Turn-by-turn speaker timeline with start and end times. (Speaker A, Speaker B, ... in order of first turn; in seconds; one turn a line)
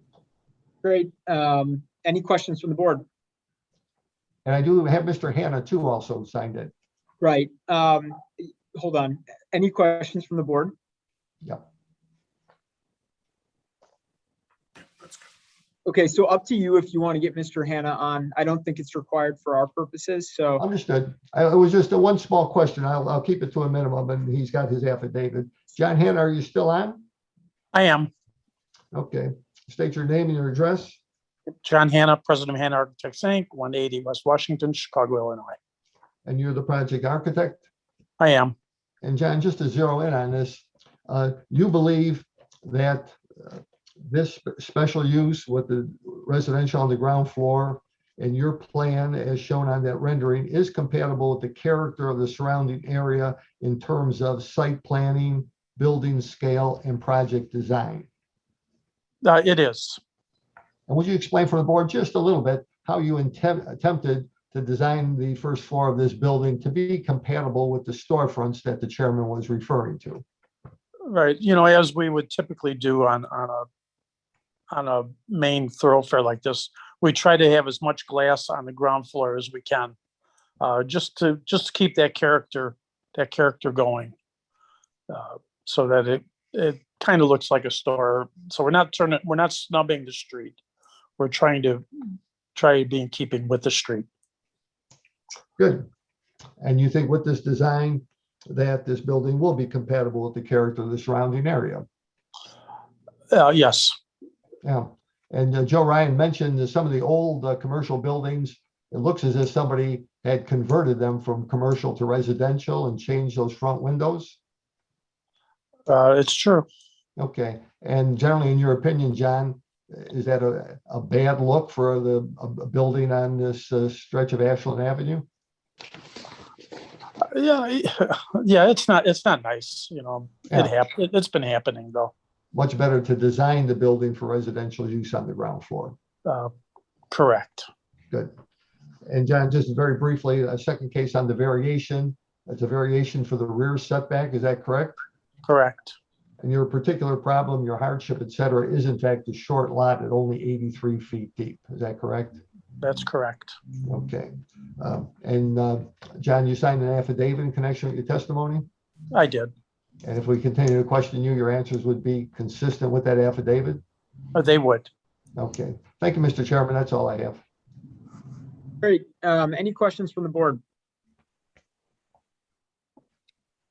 Speaker A: 0.8-3.0
Speaker B: 4.5-6.7
Speaker A: 7.2-10.7
Speaker A: 15.8-20.6
Speaker B: 20.6-27.1
Speaker C: 27.7-28.1
Speaker B: 28.9-31.0
Speaker C: 31.6-35.6
Speaker B: 36.2-37.6
Speaker C: 38.2-38.5
Speaker B: 39.0-58.1
Speaker C: 59.2-60.0
Speaker B: 60.9-70.2
Speaker C: 71.1-73.7
Speaker C: 74.7-80.0
Speaker C: 80.6-84.1
Speaker C: 85.1-90.6
Speaker C: 91.2-91.8
Speaker C: 92.5-94.1
Speaker B: 95.6-95.8
Speaker B: 96.6-101.9
Speaker C: 103.3-104.0
Speaker B: 104.6-114.4
Speaker C: 115.9-116.7
Speaker B: 117.2-125.3
Speaker C: 127.2-132.1
Speaker B: 132.5-136.0
Speaker C: 136.2-136.5
Speaker C: 137.1-137.7
Speaker B: 139.1-145.0
Speaker C: 145.4-145.9
Speaker B: 146.4-152.4
Speaker C: 152.8-153.6
Speaker B: 153.8-158.7
Speaker C: 159.1-159.5
Speaker B: 160.0-163.8
Speaker C: 164.3-164.9
Speaker B: 165.3-167.4
Speaker A: 168.8-170.6